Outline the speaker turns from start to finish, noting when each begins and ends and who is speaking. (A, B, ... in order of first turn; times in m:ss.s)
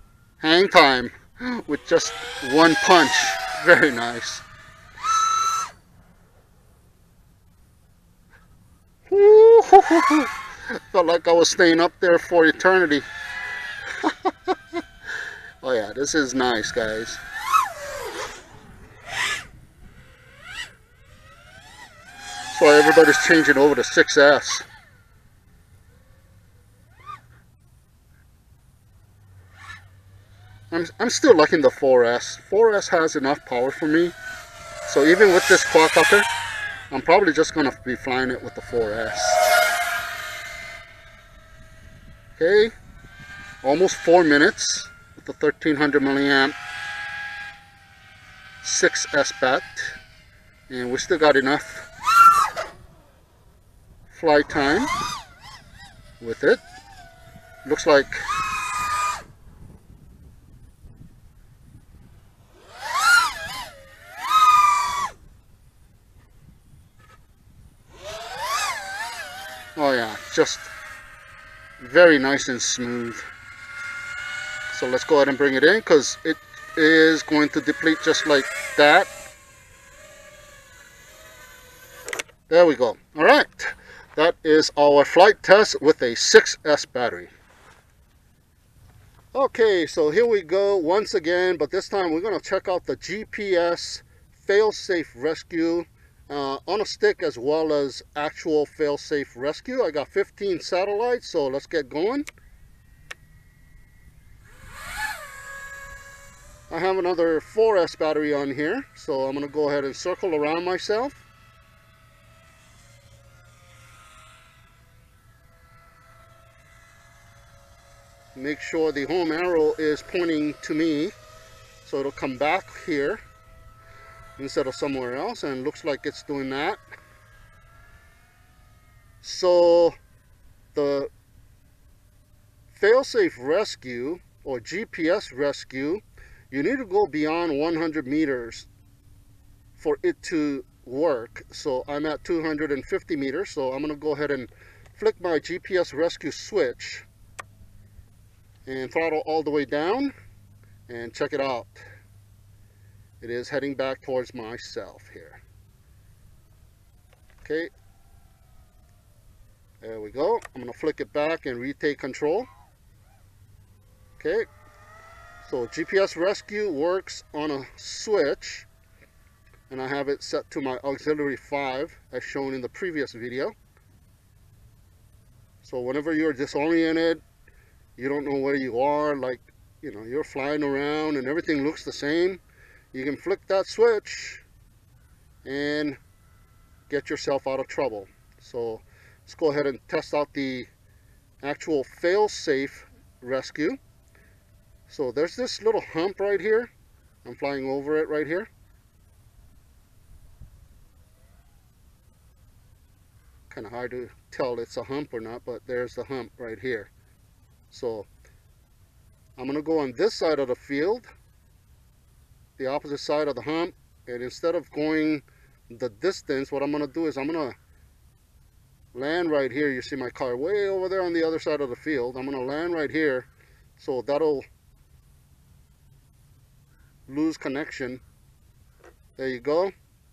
0:00.4-0:04.4 A
0:09.1-0:10.3 A
0:10.9-0:13.1 A
0:14.0-0:14.5 A
0:15.6-0:17.2 A
0:22.5-0:24.7 A
0:30.7-0:34.2 A
0:34.9-0:36.3 A
0:36.9-0:39.4 A
0:42.4-0:42.7 A
0:43.6-0:46.6 A
0:48.6-0:50.0 A
0:50.7-0:51.9 A
0:54.1-0:54.9 A
0:56.2-0:56.6 A
0:57.6-0:58.3 A
1:09.8-1:10.7 A
1:11.8-1:13.3 A
1:14.7-1:19.1 A
1:22.5-1:27.3 A
1:29.3-1:42.3 A
1:46.7-1:51.2 A
1:58.4-2:01.1 A
2:01.8-2:03.2 A
2:04.4-2:06.8 A
2:09.2-2:10.0 A
2:10.8-2:11.1 A
2:12.7-2:18.7 A
2:19.8-2:27.1 A
2:28.7-2:30.1 A
2:30.9-2:31.8 A
2:33.2-2:35.4 A
2:37.4-2:37.7 A
2:39.8-2:42.5 A
2:44.2-2:44.5 A
2:45.4-2:48.7 A
2:49.7-2:53.6 A
2:55.6-2:57.2 A
2:58.0-3:02.4 A
3:02.9-3:04.4 A
3:05.4-3:06.0 A
3:06.9-3:10.7 A
3:11.4-3:13.8 A
3:14.9-3:16.7 A
3:17.2-3:18.5 A
3:23.5-3:26.9 A
3:27.7-3:28.1 A
3:29.4-3:31.1 A
3:32.6-3:37.6 A
3:38.9-3:44.4 A
3:47.1-3:48.0 A
3:49.2-3:49.7 A